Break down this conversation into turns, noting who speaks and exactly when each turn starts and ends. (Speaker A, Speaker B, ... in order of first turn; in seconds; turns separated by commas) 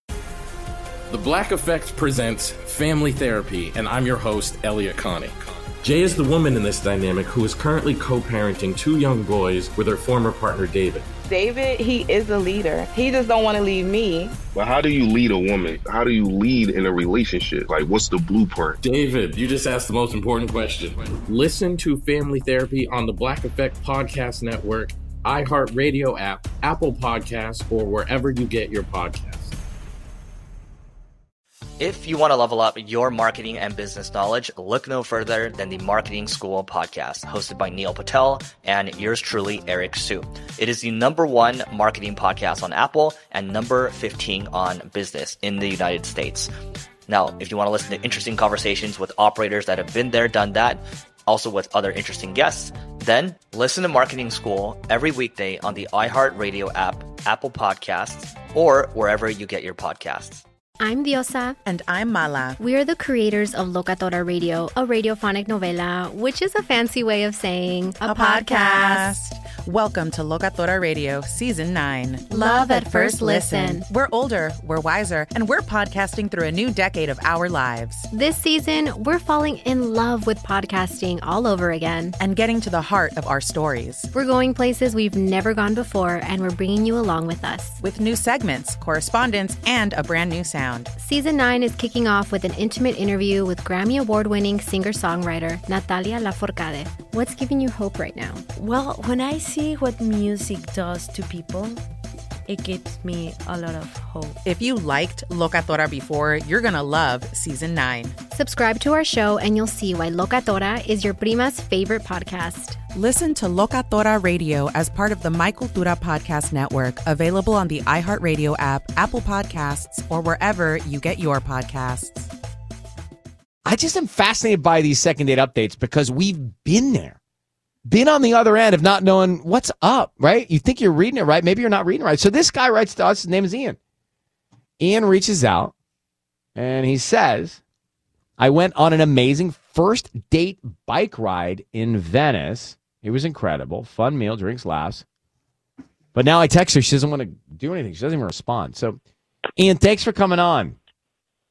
Speaker A: 1.1-11.1, Speaker B: 11.2-14.3, Speaker C: 14.5-18.8, Speaker A: 18.7-29.5, Speaker D: 31.8-46.5, Speaker D: 47.1-60.4, Speaker E: 60.8-61.6, Speaker F: 61.6-62.6, Speaker E: 62.6-69.1, Speaker F: 68.0-78.1, Speaker E: 72.3-73.8, Speaker E: 78.1-82.2, Speaker F: 82.2-84.1, Speaker E: 84.1-87.8, Speaker F: 87.8-90.9, Speaker E: 91.0-98.4, Speaker G: 98.5-101.8, Speaker G: 102.5-104.4, Speaker F: 104.4-108.2, Speaker E: 108.3-112.8, Speaker F: 112.9-122.3, Speaker H: 123.6-127.2, Speaker H: 127.8-133.8, Speaker H: 134.8-135.7, Speaker H: 136.6-137.6, Speaker H: 138.4-145.0, Speaker H: 146.1-149.0, Speaker H: 149.6-150.8